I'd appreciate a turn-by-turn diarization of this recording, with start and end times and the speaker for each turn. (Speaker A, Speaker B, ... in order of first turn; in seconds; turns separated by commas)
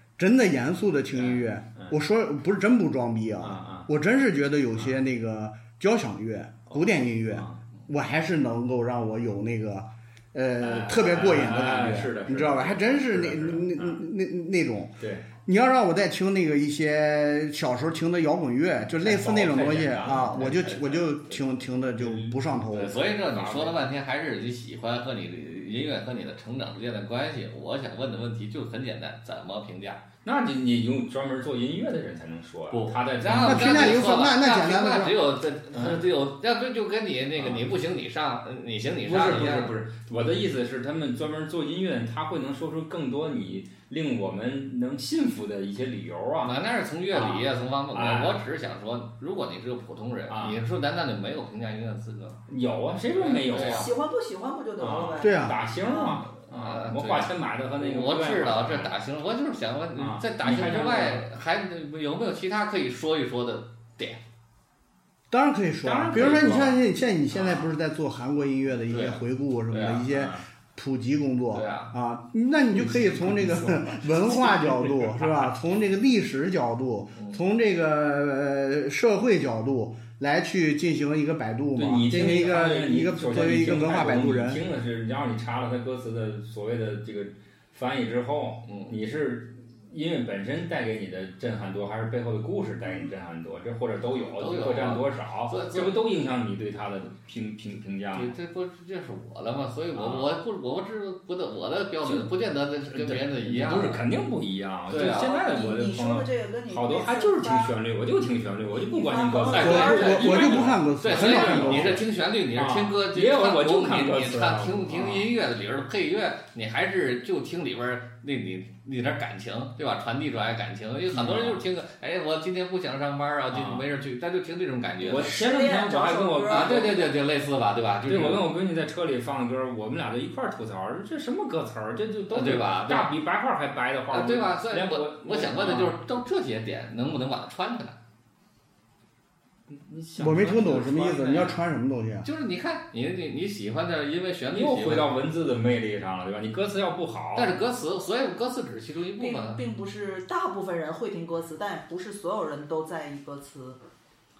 Speaker A: 0.2-23.0, Speaker B: 1.1-2.0, Speaker B: 3.4-3.9, Speaker B: 6.7-7.6, Speaker B: 10.6-14.0, Speaker B: 15.0-15.3, Speaker B: 19.0-20.7, Speaker C: 20.0-21.4, Speaker B: 22.0-22.4, Speaker C: 22.7-30.0, Speaker B: 23.3-23.8, Speaker B: 30.2-34.1, Speaker C: 32.7-39.7, Speaker A: 33.3-35.2, Speaker B: 35.7-36.0, Speaker B: 37.4-37.7, Speaker B: 39.1-46.5, Speaker C: 46.4-52.4, Speaker B: 47.1-48.4, Speaker B: 50.3-50.6, Speaker B: 52.5-53.9, Speaker C: 53.1-53.9, Speaker D: 53.5-56.2, Speaker B: 54.8-58.9, Speaker A: 55.2-55.6, Speaker C: 56.0-64.2, Speaker B: 60.0-61.3, Speaker A: 65.3-84.6, Speaker B: 65.8-66.8, Speaker B: 67.3-67.7, Speaker C: 68.9-70.1, Speaker B: 70.1-70.4, Speaker C: 71.5-71.9, Speaker B: 72.7-75.4, Speaker C: 77.2-77.4, Speaker B: 81.8-98.3, Speaker C: 88.7-89.0, Speaker C: 94.2-96.1, Speaker C: 98.1-104.1, Speaker B: 100.0-100.4, Speaker B: 102.9-115.3, Speaker C: 104.9-105.4, Speaker D: 105.0-107.8, Speaker D: 108.7-110.6, Speaker C: 109.5-125.3, Speaker A: 109.6-112.0, Speaker B: 121.1-121.6, Speaker B: 123.5-123.9, Speaker D: 125.0-127.1, Speaker B: 125.0-127.1, Speaker C: 126.5-128.5, Speaker B: 128.1-136.0, Speaker C: 132.3-133.2, Speaker C: 134.1-138.0, Speaker B: 139.7-141.6, Speaker A: 140.2-142.3, Speaker C: 142.2-145.1, Speaker B: 144.5-147.6, Speaker C: 147.4-149.6, Speaker D: 149.2-153.8